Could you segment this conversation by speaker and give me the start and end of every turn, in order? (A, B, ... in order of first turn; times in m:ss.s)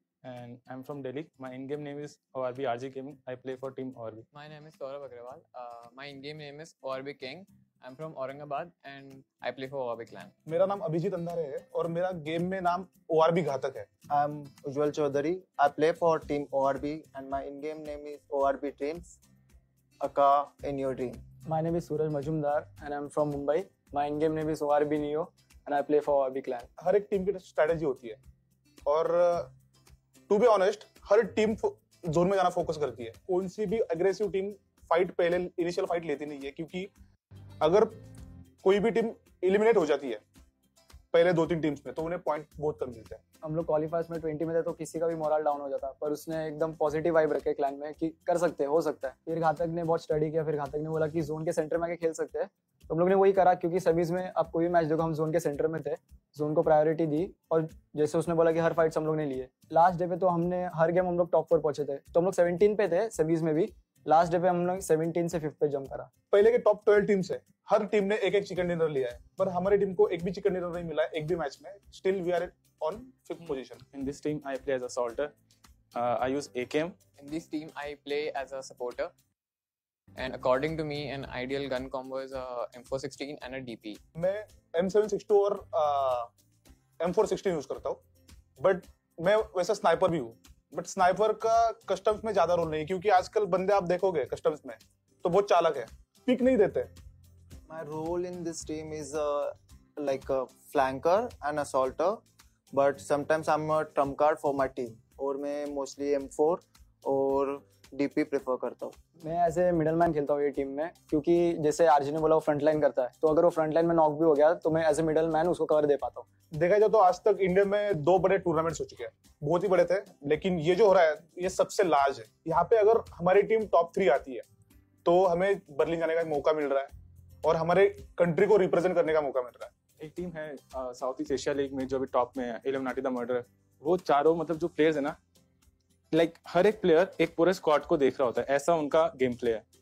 0:00.2-0:04.3 A
0:04.3-0:10.3 B
0:10.5-0:13.9 C
0:14.1-0:19.2 D
0:20.0-0:21.2 D
0:21.5-0:26.7 E
0:26.8-0:28.2 C
0:28.8-0:29.5 C
0:30.3-0:36.9 C
0:37.6-0:37.9 C
0:38.6-0:40.2 C
0:41.1-0:43.2 C
0:43.4-1:06.1 E
1:06.3-1:13.8 C
1:13.4-1:15.3 A
1:15.9-1:17.0 A
1:17.2-1:19.1 B
1:20.2-1:24.0 B
1:24.2-1:26.3 C
1:27.0-1:28.0 C
1:28.6-1:36.9 C
1:37.7-1:42.2 D
1:42.7-1:49.0 D
1:49.2-1:56.2 E
1:56.5-2:04.4 C
2:05.0-2:06.9 C
2:07.4-2:09.7 C
2:10.0-2:15.2 A
2:16.1-2:19.6 A